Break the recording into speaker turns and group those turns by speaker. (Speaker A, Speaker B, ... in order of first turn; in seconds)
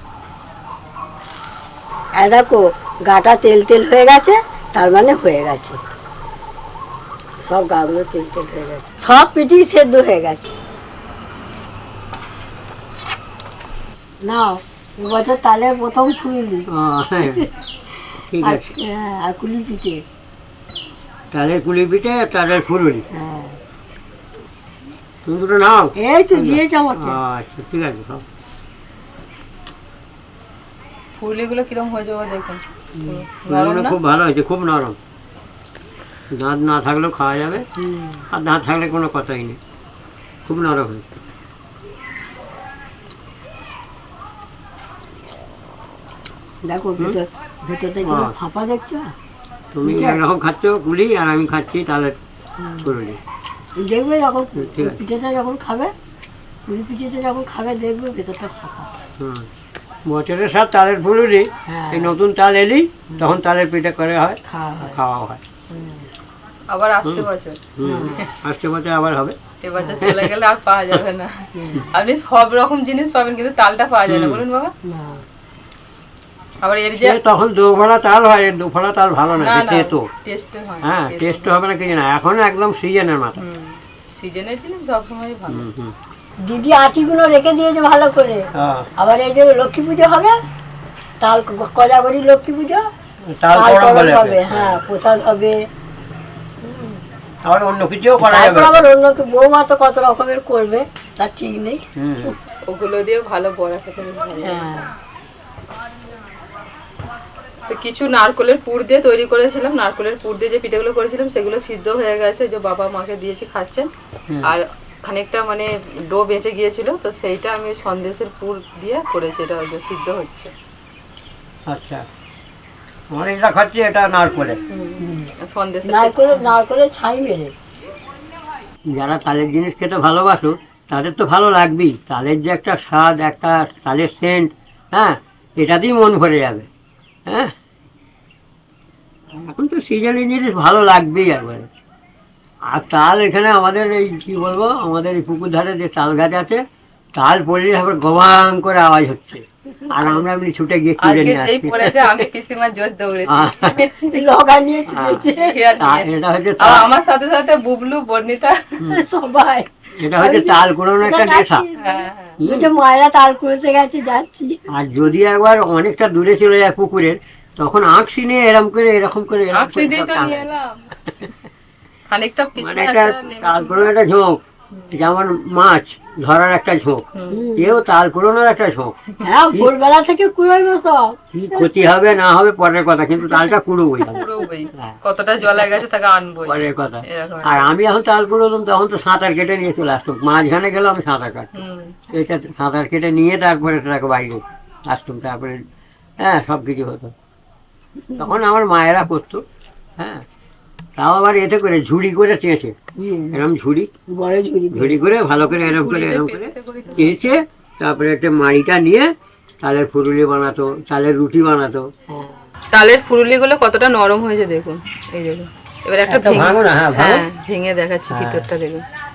Speaker A: 2.2-5.8, 7.5-10.5, 14.2-16.7, 17.2-17.5, 18.4-20.0, 23.1-23.6, 26.0-27.2, 33.0-33.2, 37.8-38.2, 46.6-49.1, 49.8-50.2, 52.6-52.9, 53.8-55.9, 56.7-58.9, 61.7-62.2, 64.5-65.0, 65.7-66.1, 67.8-68.2, 69.8-70.1, 71.6-71.9, 74.8-75.2, 86.4-88.5, 89.0-90.3, 91.2-92.8, 93.5-95.5, 96.7-96.9, 98.2-101.8, 104.4-104.9, 125.0-125.3, 125.8-127.5, 154.1-155.6, 158.9-164.6, 177.3-177.8, 179.2-181.7, 203.0-203.4, 204.1-205.1, 212.1-212.4
Speaker B: 16.7-17.5, 18.3-18.6, 21.3-23.0, 25.3-28.2, 33.5-35.0, 36.3-37.7, 38.3-39.6, 40.5-41.0, 48.0-48.4, 49.7-52.2, 52.8-53.2, 54.6-55.0, 59.2-59.5, 60.1-65.4, 67.0-69.4, 70.0-70.3, 74.1-74.4, 77.0-80.1, 80.8-83.4, 85.5-85.9, 88.6-88.9, 93.3-94.8, 97.5-98.8, 102.0-102.4, 114.3-114.5, 121.7-122.0, 123.1-124.6, 128.9-136.7, 139.3-141.7, 142.7-146.6, 147.2-152.2, 153.3-153.8, 154.9-155.3, 155.8-156.9, 160.0-161.6, 162.4-162.7, 164.7-170.5, 172.6-174.4, 174.9-177.0, 177.6-178.9, 181.3-184.9, 186.5-191.5, 192.1-195.6, 196.2-197.1, 198.2-199.4, 201.0-202.7, 203.3-203.9, 204.7-209.1, 209.6-211.9, 216.1-217.2, 218.1-218.5
Speaker C: 31.2-34.0, 66.7-67.6, 69.6-74.7, 76.6-77.2, 79.4-81.5, 83.4-85.7, 102.7-104.7, 107.7-113.9, 114.4-120.5, 124.7-126.5, 151.0-154.2, 155.3-156.1, 156.6-158.6, 161.8-162.4, 169.5-170.8, 172.1-173.9, 177.2-177.4, 184.1-187.7, 191.6-192.0, 205.4-207.3, 212.7-218.8